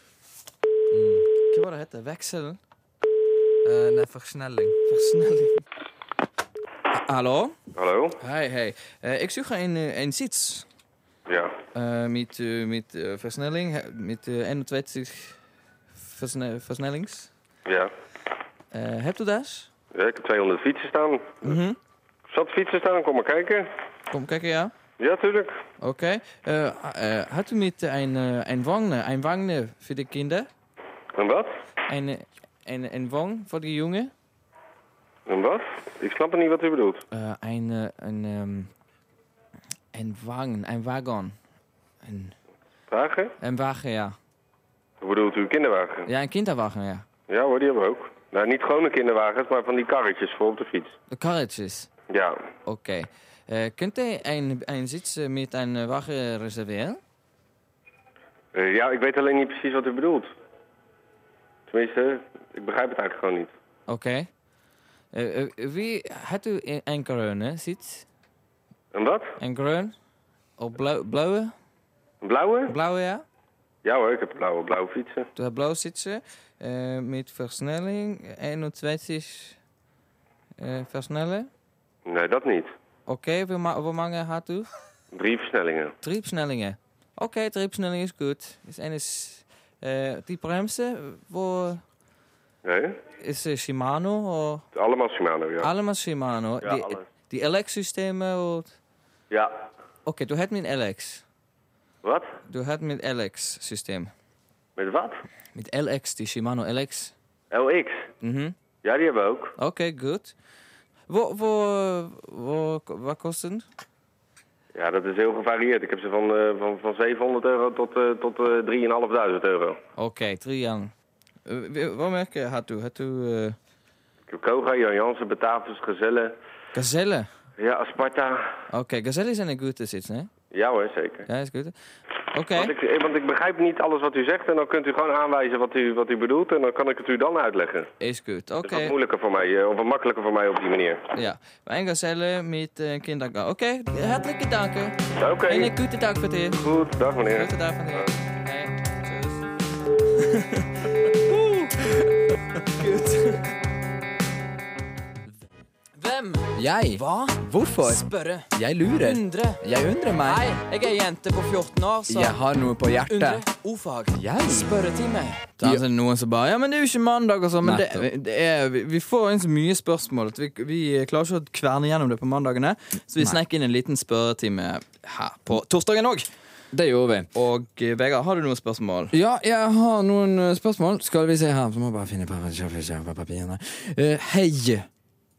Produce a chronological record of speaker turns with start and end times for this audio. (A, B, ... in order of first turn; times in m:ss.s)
0:00.9-0:01.3 A
0:01.5-0:02.6 B
0:03.6-0:04.8 A
0:04.9-0:05.6 B
0:06.9-0:07.6 B
0:07.8-0:08.2 C
0:08.2-0:10.7 B
0:11.3-0:11.5 C
0:11.7-0:15.4 B
0:16.0-0:17.3 B
0:17.7-0:17.9 C
0:18.7-0:19.7 B
0:19.9-0:21.6 C
0:21.4-0:21.8 B
0:22.3-0:23.7 C
0:24.1-0:24.7 B
0:25.0-0:25.5 C
0:25.8-0:30.5 B
0:31.2-0:31.5 C
0:31.9-0:34.1 B
0:35.3-0:37.0 C
0:37.1-0:38.7 B
0:39.9-0:41.4 B
0:42.0-0:42.3 B
0:42.9-0:43.3 C
0:43.4-0:44.2 B
0:45.0-0:46.1 C
0:46.1-0:47.0 B
0:47.3-0:50.9 C
0:51.1-0:51.9 B
0:52.1-0:52.4 C
0:52.7-0:57.0 B
0:58.6-1:00.3 C
1:01.7-1:03.5 C
1:03.9-1:04.3 B
1:05.1-1:08.1 B
1:08.9-1:09.2 C
1:09.4-1:09.9 B
1:10.6-1:11.5 B
1:12.2-1:12.7 C
1:12.7-1:13.2 B
1:13.8-1:15.3 C
1:15.4-1:19.6 B
1:20.6-1:21.5 B
1:22.1-1:22.7 C
1:23.1-1:24.7 B
1:25.1-1:25.9 C
1:26.0-1:31.8 B
1:32.6-1:33.0 C
1:33.2-1:34.6 B
1:34.8-1:35.7 C
1:35.6-1:38.8 B
1:36.6-1:37.0 C
1:40.0-1:41.2 B
1:42.5-1:44.1 B
1:44.8-1:45.2 C
1:45.6-1:47.1 B
1:47.5-1:48.0 C
1:48.2-1:48.6 B
1:48.8-1:49.5 C
1:49.6-1:50.3 B
1:51.1-1:53.6 B
1:54.7-1:59.8 C
2:00.0-2:00.9 B
2:01.5-2:03.6 B
2:04.3-2:06.3 C
2:06.7-2:07.3 B
2:07.6-2:08.4 C
2:08.7-2:10.3 B
2:10.5-2:11.2 C
2:11.3-2:11.8 B
2:12.3-2:12.7 B
2:12.6-2:17.9 C
2:18.0-2:18.9 B
2:18.7-2:21.0 C
2:21.1-2:26.6 B
2:25.2-2:25.7 C
2:26.5-2:28.0 C
2:27.3-2:29.5 B
2:30.2-2:32.0 B
2:32.6-2:33.5 B
2:36.0-2:39.6 B
2:36.6-2:40.4 A
2:40.2-2:42.4 B
2:42.1-2:43.4 A
2:43.1-2:56.3 B
2:44.2-2:44.7 A
2:47.6-2:48.1 A
2:56.7-2:57.3 A
2:57.3-2:59.2 B
2:59.1-3:04.8 A